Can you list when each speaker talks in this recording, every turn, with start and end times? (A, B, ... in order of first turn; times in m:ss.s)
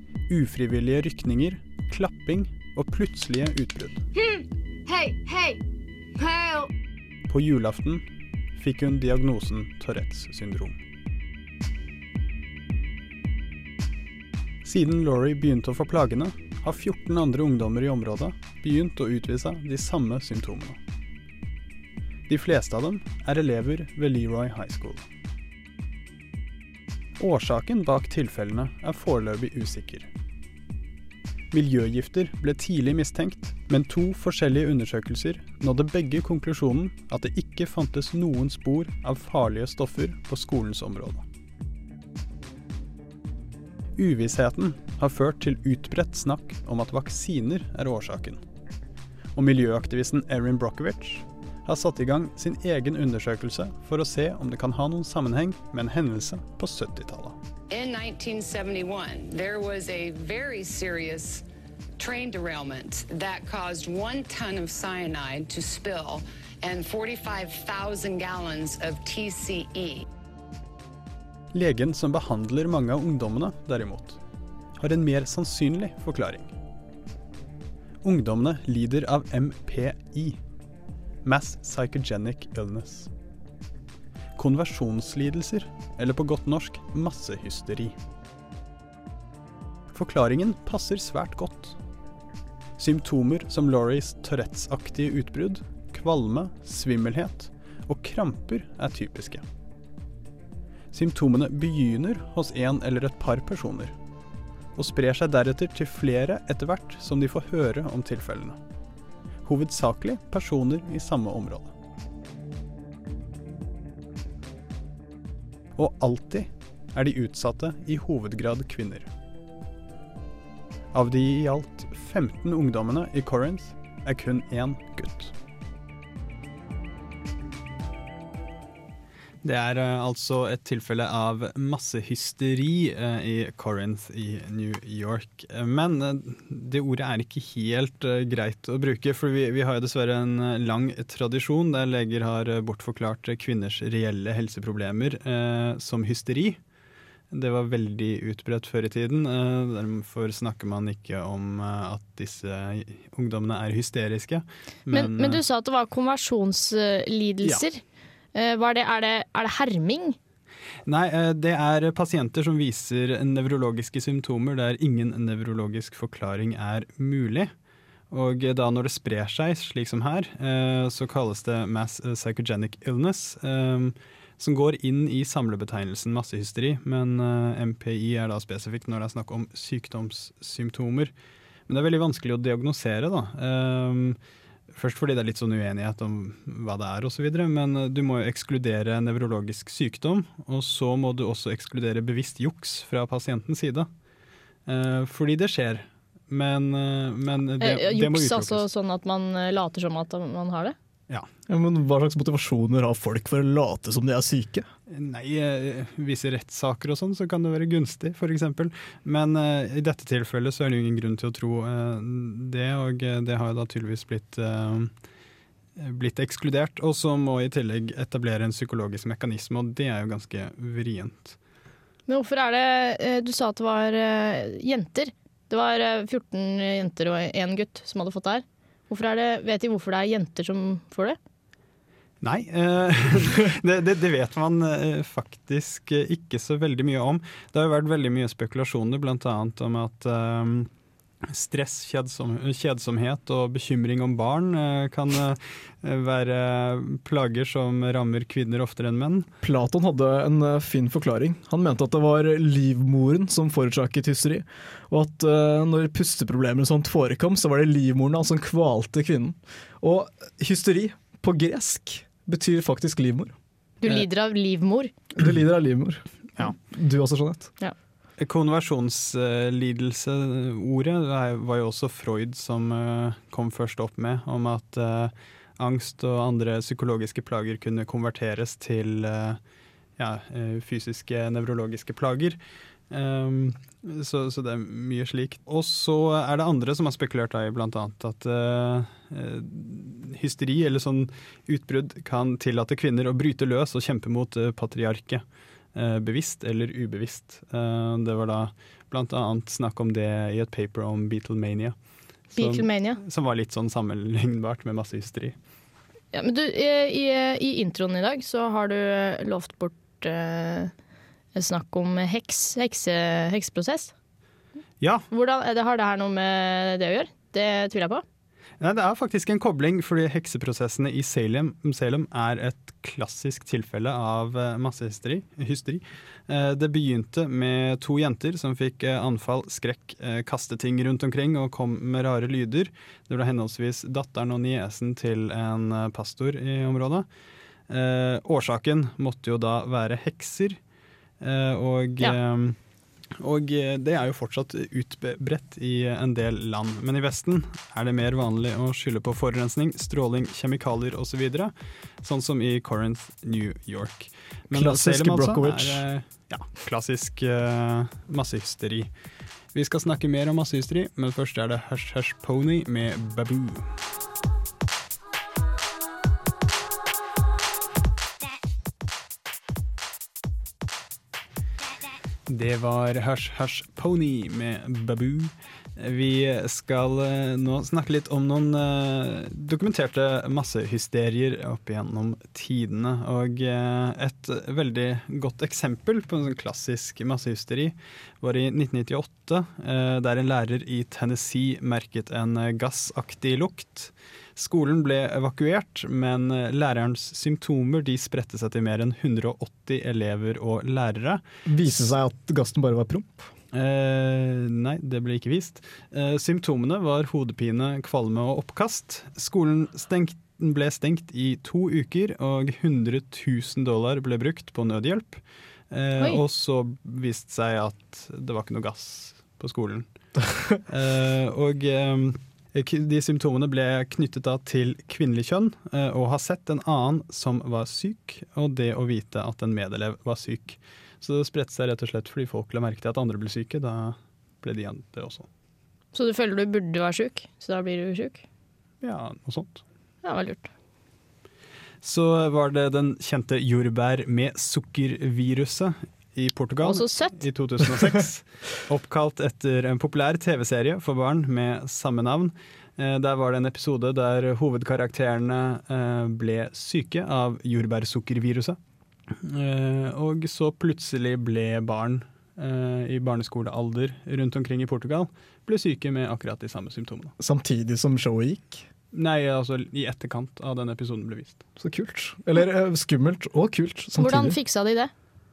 0:00.3-0:04.0 A
0:04.1-0:06.7 B
0:07.3-0:08.0 A
0:08.6-0:10.8 A
0:14.6-0:20.8 A
0:22.3-0:25.0 A
0:27.2-0:30.1 A
0:31.5-0:41.2 A
0:44.0-0:48.4 A
0:49.4-0:57.4 A
0:57.7-1:01.4 C
1:02.0-1:10.0 C
1:11.5-1:14.2 A
1:14.8-1:16.5 A
1:18.0-1:20.4 A
1:21.2-1:23.1 A
1:24.4-1:28.0 A
1:29.9-1:31.8 A
1:32.8-1:39.4 A
1:40.9-1:43.9 A
1:44.8-1:48.6 A
1:49.4-1:51.7 A
1:55.8-1:59.1 A
2:00.9-2:05.3 A
2:09.4-2:26.6 A
2:27.3-2:35.4 A
2:34.9-2:37.8 D
2:38.3-2:40.2 D
2:40.9-2:47.5 A
2:48.1-3:01.1 A
3:01.7-3:04.2 A
3:04.7-3:13.9 A
3:14.7-3:18.6 A
3:17.6-3:20.8 D
3:21.5-3:24.7 E
3:24.9-3:34.9 A
3:35.8-3:41.4 A
3:42.1-3:51.2 D
3:52.2-4:00.7 A
4:01.3-4:09.3 A
4:09.4-4:23.4 E
4:23.8-4:24.9 D
4:25.2-4:27.5 E
4:28.2-4:39.4 A
4:40.0-4:42.4 A
4:42.9-4:55.2 A
4:55.7-5:01.8 A
5:02.3-5:05.4 A
5:02.4-5:03.0 D
5:06.1-5:10.7 D
5:11.4-5:13.9 D
5:14.8-5:15.1 A
5:15.1-5:18.0 D
5:18.6-5:37.1 A
5:37.7-5:40.6 A
5:41.2-5:42.6 A
5:43.2-5:58.9 A
5:54.5-5:55.8 E
5:59.5-6:03.7 A
6:12.3-6:41.2 A
6:41.5-6:43.3 E
6:43.5-6:59.9 A
7:00.7-7:15.3 A
7:15.9-7:18.2 D
7:18.8-7:19.6 A
7:20.0-7:20.5 D
7:21.8-7:38.6 A
7:26.6-7:27.2 D
7:39.2-7:47.1 A
7:47.2-7:48.7 E
7:48.9-7:51.4 A
7:51.6-7:54.4 E
7:54.0-7:54.9 D